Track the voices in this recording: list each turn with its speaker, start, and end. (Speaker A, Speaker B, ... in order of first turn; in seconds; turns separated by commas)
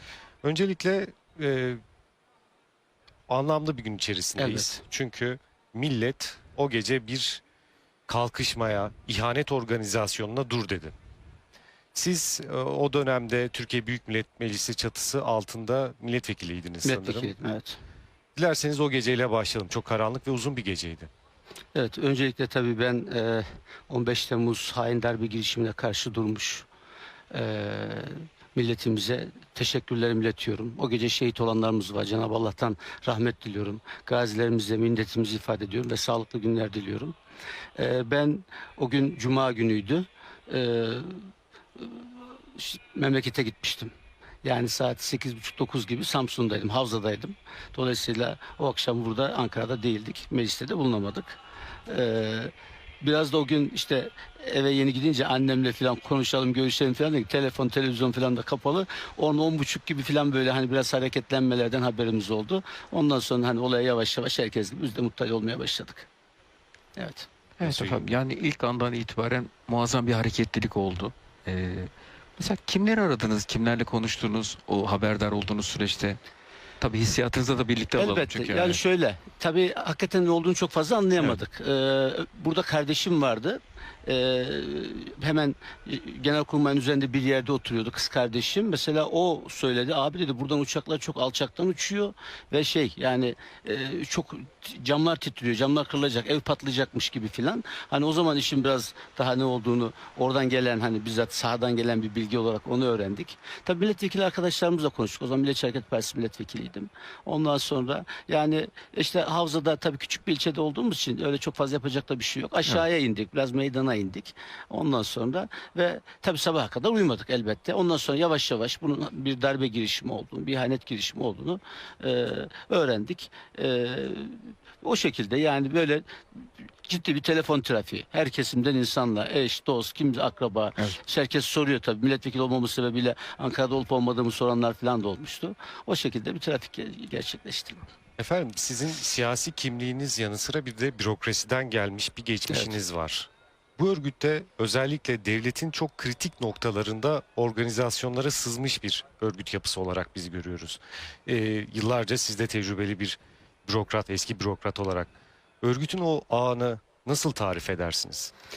Speaker A: 0.4-1.8, Speaker A: 3.3-7.4, Speaker B: 4.4-4.8, Speaker A: 8.1-10.9, Speaker A: 11.9-17.3, Speaker B: 16.8-17.8, Speaker A: 18.4-21.1, Speaker B: 21.8-26.7, Speaker B: 27.3-37.1, Speaker B: 37.8-41.2, Speaker B: 41.8-43.9, Speaker B: 44.4-66.1, Speaker B: 67.0-67.3, Speaker C: 67.6-76.2, Speaker A: 67.6-68.0, Speaker C: 76.8-78.8, Speaker B: 78.0-126.0, Speaker B: 126.8-137.8, Speaker A: 138.2-155.1, Speaker A: 155.6-158.3